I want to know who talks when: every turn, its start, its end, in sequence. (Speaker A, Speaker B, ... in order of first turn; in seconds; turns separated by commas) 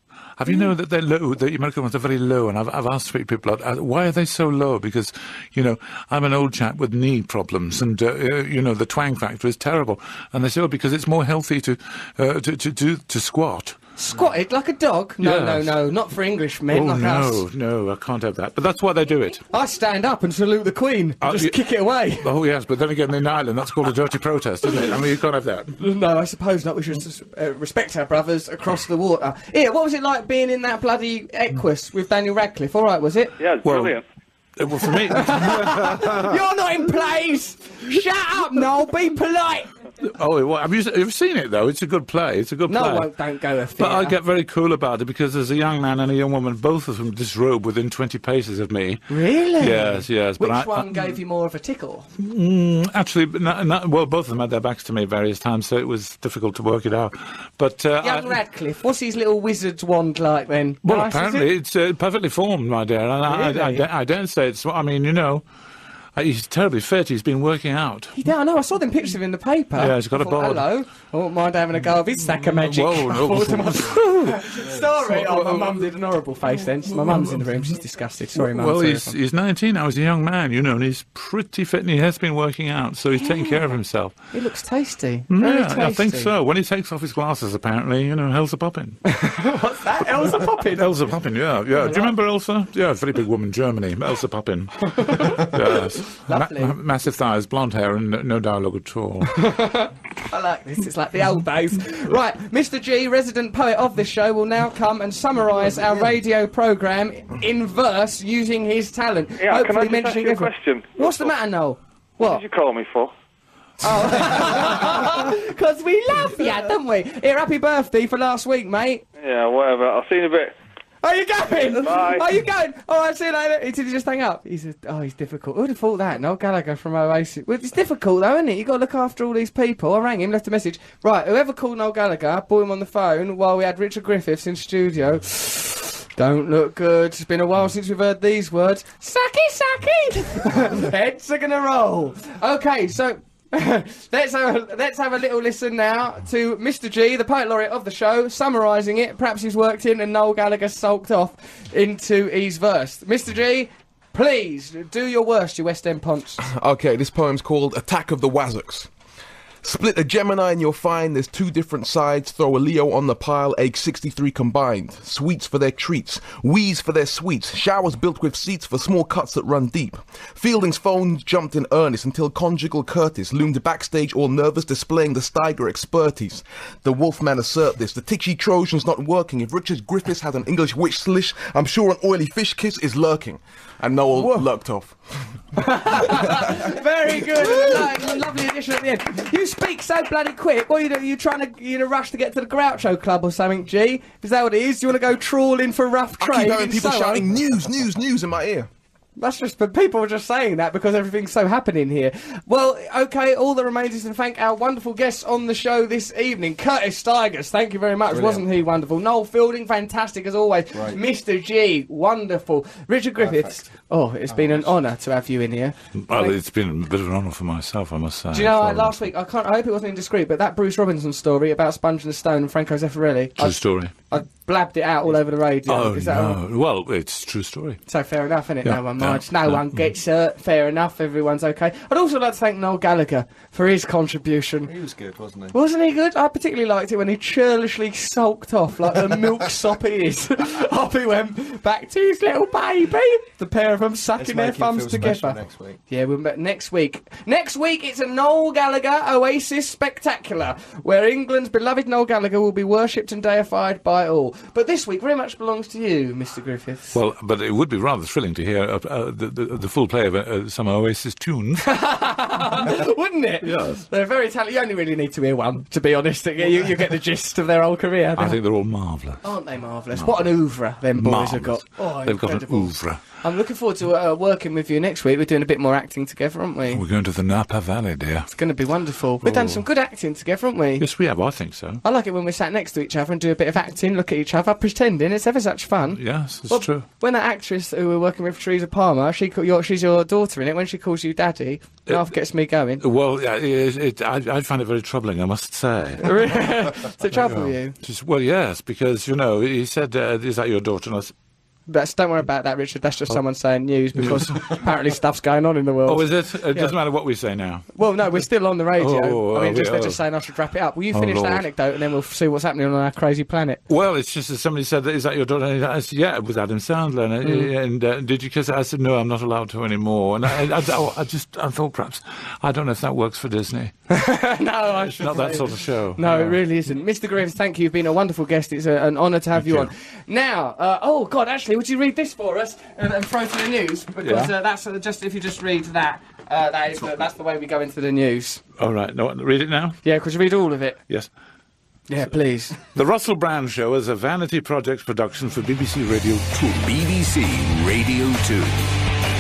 Speaker A: 0.4-13.8, Speaker B: 14.0-17.4, Speaker A: 15.2-15.8, Speaker A: 16.7-19.4, Speaker B: 19.5-22.3, Speaker A: 21.2-21.6, Speaker A: 22.2-25.8, Speaker B: 25.8-33.4, Speaker C: 33.4-34.0, Speaker A: 33.6-34.0, Speaker A: 34.6-36.4, Speaker B: 35.0-39.7, Speaker A: 40.0-43.1, Speaker B: 42.7-44.2, Speaker A: 43.8-49.0, Speaker B: 49.1-52.1, Speaker A: 49.5-51.2, Speaker A: 52.2-58.4, Speaker B: 58.0-61.5, Speaker A: 60.8-65.4, Speaker B: 63.2-63.8, Speaker A: 66.2-68.2, Speaker B: 68.1-79.2, Speaker A: 69.8-70.7, Speaker A: 72.2-75.9, Speaker A: 76.9-77.5, Speaker A: 78.3-84.2, Speaker B: 83.2-83.7, Speaker B: 84.3-86.3, Speaker A: 85.3-89.4, Speaker B: 89.1-91.0, Speaker A: 90.3-99.5, Speaker B: 91.7-92.2, Speaker B: 95.0-96.8, Speaker B: 99.3-112.4, Speaker C: 109.4-111.3, Speaker C: 112.2-113.1, Speaker B: 113.8-119.0, Speaker C: 119.2-120.5, Speaker B: 121.0-156.4, Speaker C: 121.8-122.3, Speaker D: 156.4-158.9, Speaker D: 159.6-185.2, Speaker B: 184.2-184.4, Speaker B: 185.6-197.2, Speaker D: 185.9-186.7, Speaker D: 196.2-198.7, Speaker B: 199.2-216.4, Speaker E: 208.1-208.4, Speaker E: 210.7-211.0, Speaker E: 213.2-213.5, Speaker E: 214.3-214.7, Speaker A: 216.0-219.0, Speaker B: 218.3-226.4, Speaker A: 223.4-223.9, Speaker A: 225.7-227.8, Speaker B: 227.9-234.7, Speaker A: 228.6-229.7, Speaker E: 234.7-235.6, Speaker B: 235.5-245.4, Speaker E: 244.2-245.8, Speaker B: 245.9-257.0, Speaker A: 256.9-261.7, Speaker B: 261.6-268.4, Speaker A: 263.4-263.9, Speaker A: 268.2-269.2, Speaker B: 269.2-276.8, Speaker A: 269.9-270.4, Speaker A: 270.9-273.0, Speaker A: 276.7-278.3, Speaker B: 278.3-280.9, Speaker A: 279.2-279.6, Speaker A: 280.8-281.8, Speaker B: 281.8-292.8, Speaker A: 285.9-286.9, Speaker A: 292.8-296.2, Speaker B: 296.0-297.8, Speaker A: 297.1-301.1, Speaker B: 301.7-306.8, Speaker A: 303.9-304.7, Speaker A: 305.9-307.7, Speaker B: 307.7-313.6, Speaker A: 308.8-310.0, Speaker A: 310.9-311.4, Speaker A: 313.7-323.7, Speaker B: 317.2-317.5, Speaker B: 323.9-338.4, Speaker A: 324.9-326.4, Speaker A: 329.4-329.7, Speaker A: 334.0-334.3, Speaker A: 338.6-339.8, Speaker B: 339.8-340.8, Speaker B: 341.9-342.6, Speaker A: 342.7-346.6, Speaker F: 346.5-348.7